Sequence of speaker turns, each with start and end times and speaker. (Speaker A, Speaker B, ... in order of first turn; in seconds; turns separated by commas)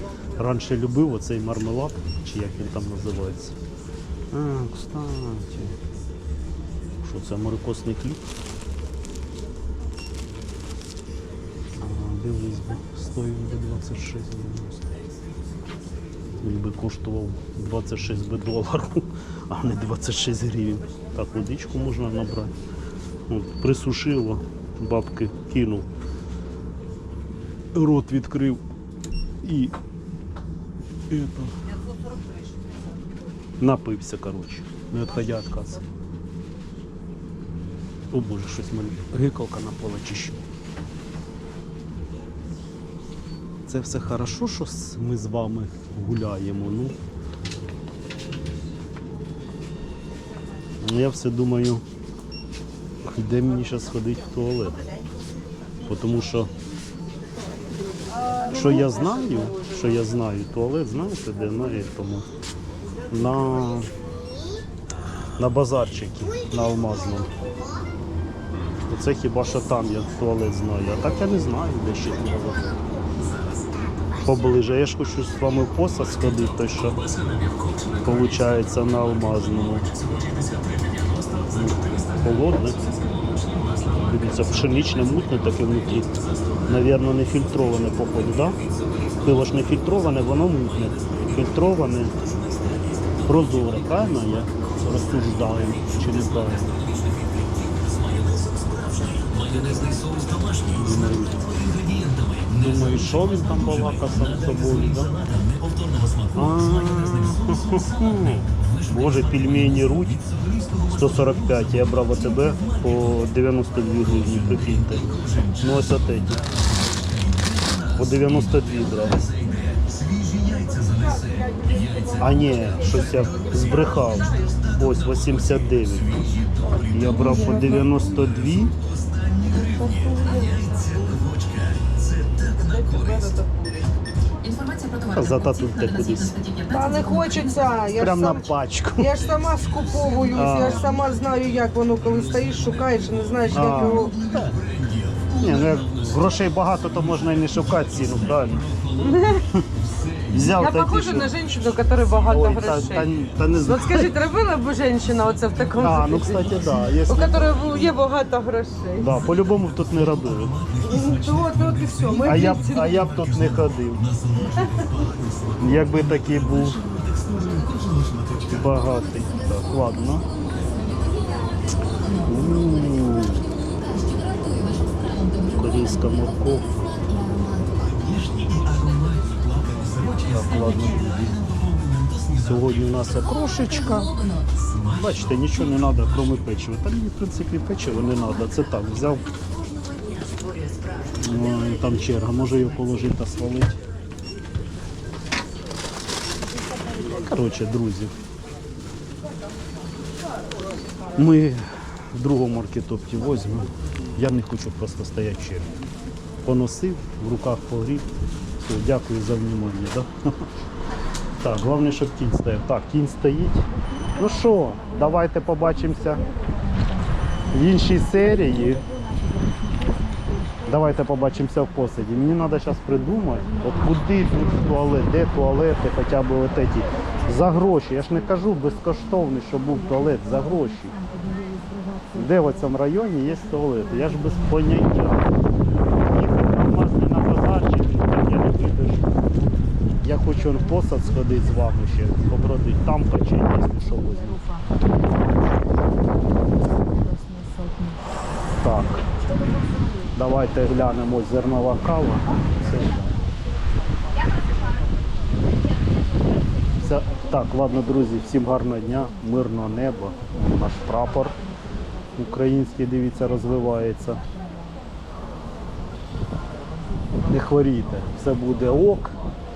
Speaker A: 0.4-3.5, Speaker A: 4.3-5.7, Speaker A: 7.0-8.2, Speaker A: 11.7-14.9, Speaker A: 16.4-22.5, Speaker A: 23.3-25.9, Speaker A: 27.7-28.6, Speaker A: 29.4-29.7, Speaker A: 31.1-31.5, Speaker A: 33.6-35.8, Speaker A: 38.1-40.4, Speaker A: 43.7-46.9, Speaker A: 50.8-51.8, Speaker A: 53.1-54.8, Speaker A: 55.9-56.5, Speaker A: 58.5-62.2, Speaker A: 63.1-63.9, Speaker A: 65.4-67.3, Speaker A: 68.9-72.8, Speaker A: 74.2-77.0, Speaker A: 78.0-79.9, Speaker A: 81.5-82.8, Speaker A: 84.1-86.1, Speaker A: 86.7-88.5, Speaker A: 89.2-92.2, Speaker A: 93.3-96.8, Speaker A: 99.6-99.9, Speaker A: 100.7-101.4, Speaker A: 102.5-105.2, Speaker A: 106.3-110.2, Speaker A: 110.9-116.5, Speaker A: 118.0-119.2, Speaker B: 120.7-122.2, Speaker A: 122.2-126.2, Speaker A: 126.9-128.7, Speaker B: 127.1-127.8, Speaker B: 129.5-131.2, Speaker B: 132.4-133.9, Speaker A: 135.1-136.3, Speaker B: 136.7-138.4, Speaker A: 138.0-139.1, Speaker B: 139.0-144.1, Speaker A: 140.3-140.8, Speaker A: 143.5-144.6, Speaker A: 145.4-148.7, Speaker B: 149.0-149.5, Speaker A: 150.3-151.3, Speaker B: 150.5-159.1, Speaker A: 152.3-154.1, Speaker A: 155.8-157.6, Speaker A: 158.9-160.6, Speaker B: 160.8-162.9, Speaker A: 162.2-164.1, Speaker A: 165.6-166.8, Speaker A: 168.5-170.3, Speaker A: 172.2-173.4, Speaker A: 175.5-176.7, Speaker A: 180.2-181.4, Speaker A: 182.4-184.1, Speaker A: 184.9-189.2, Speaker A: 191.2-193.8, Speaker A: 197.0-198.1, Speaker A: 201.1-205.7, Speaker A: 206.4-208.1, Speaker A: 208.6-210.1, Speaker A: 211.4-213.6, Speaker A: 214.2-216.2, Speaker A: 217.5-218.8, Speaker A: 220.7-231.0, Speaker A: 232.1-235.3, Speaker A: 236.1-239.1, Speaker A: 240.0-244.4, Speaker A: 248.6-249.0, Speaker A: 250.2-253.1, Speaker A: 256.8-261.3, Speaker A: 262.1-264.2, Speaker A: 267.3-269.1